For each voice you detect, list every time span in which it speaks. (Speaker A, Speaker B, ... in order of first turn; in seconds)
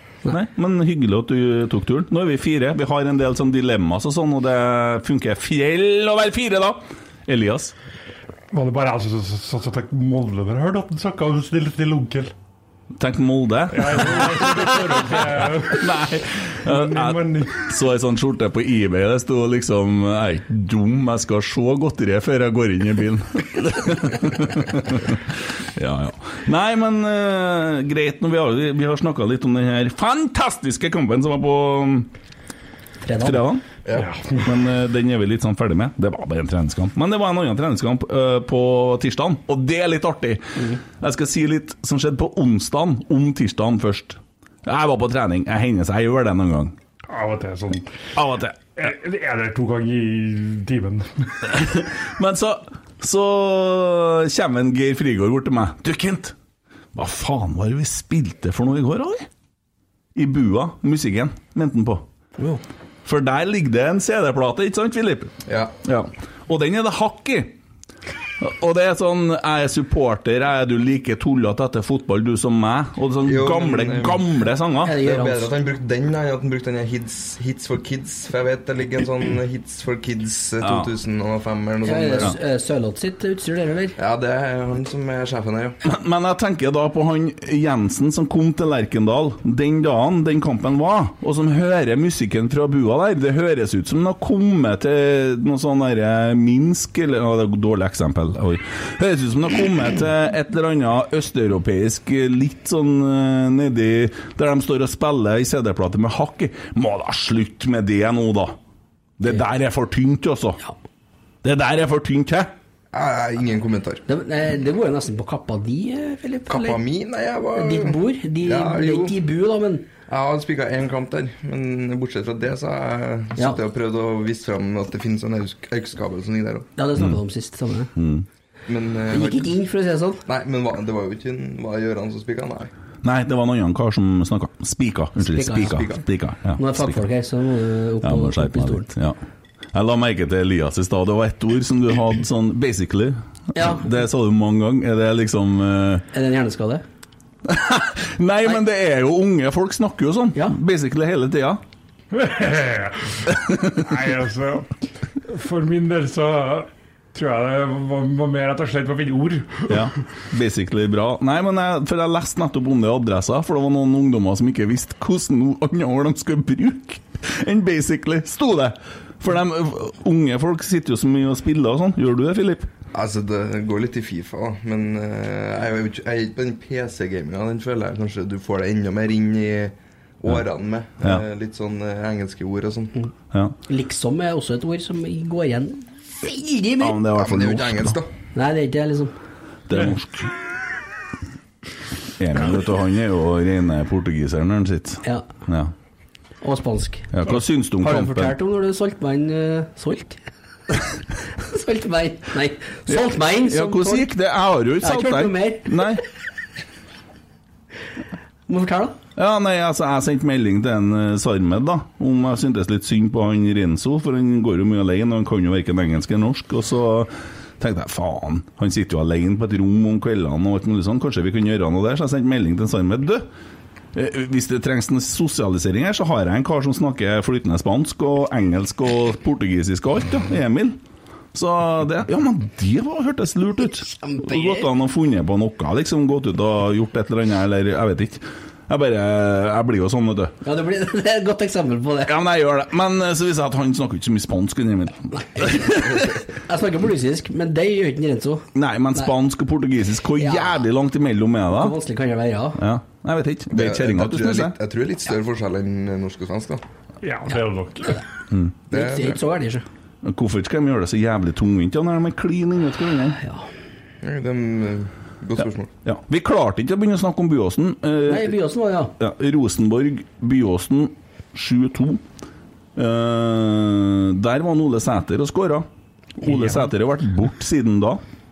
Speaker A: 0.3-7.7, 12.9-32.1, 33.2-33.6, 34.4-46.8, 48.1-48.8, 51.5-56.3, 56.9-59.3, 60.1-62.0, 63.0-67.5, 68.4-75.0, 80.6-80.9, 85.8-108.6, 109.2-110.6, 111.4-112.5, 127.9-128.2, 133.0-137.0, 138.0-139.2, 139.7-146.0, 147.4-151.6, 153.3-153.8, 159.7-172.7, 186.8-188.0, 189.7-190.3, 192.2-195.7, 197.1-198.4, 202.9-206.0, 209.2-223.3, 223.9-230.8, 231.3-240.3, 242.0-246.2, 248.5-251.8, 252.6-254.6, 260.0-263.2, 265.8-268.4, 269.0-272.0, 272.8-275.7, 276.2-278.0
Speaker B: 8.5-12.3, 13.7-17.6, 34.0-34.4, 47.1-48.0, 48.8-51.5, 152.1-159.9, 257.0-258.0
Speaker C: 33.0-33.4, 74.8-75.5, 81.8-84.0, 114.1-116.8, 117.5-119.9, 126.8-127.9, 129.1-130.2, 135.2-136.0, 136.6-138.9, 143.5-143.9, 146.1-146.8, 183.7-187.0, 188.3-189.1, 196.4-197.1, 197.8-200.2, 201.4-204.1, 204.8-205.9, 208.5-208.9, 233.9-234.7, 240.4-242.1, 245.2-248.4, 250.2-250.6, 251.5-252.6, 258.7-259.6, 263.2-263.4, 268.1-268.9
Speaker D: 65.5-65.7, 73.2-74.2, 74.9-82.3, 84.0-85.8, 112.9-114.0, 116.5-119.2, 120.1-126.7, 128.7-129.6, 130.2-132.7, 135.6-136.0, 172.9-182.9, 187.1-188.1, 253.5-256.6, 258.7-259.2, 264.0-265.7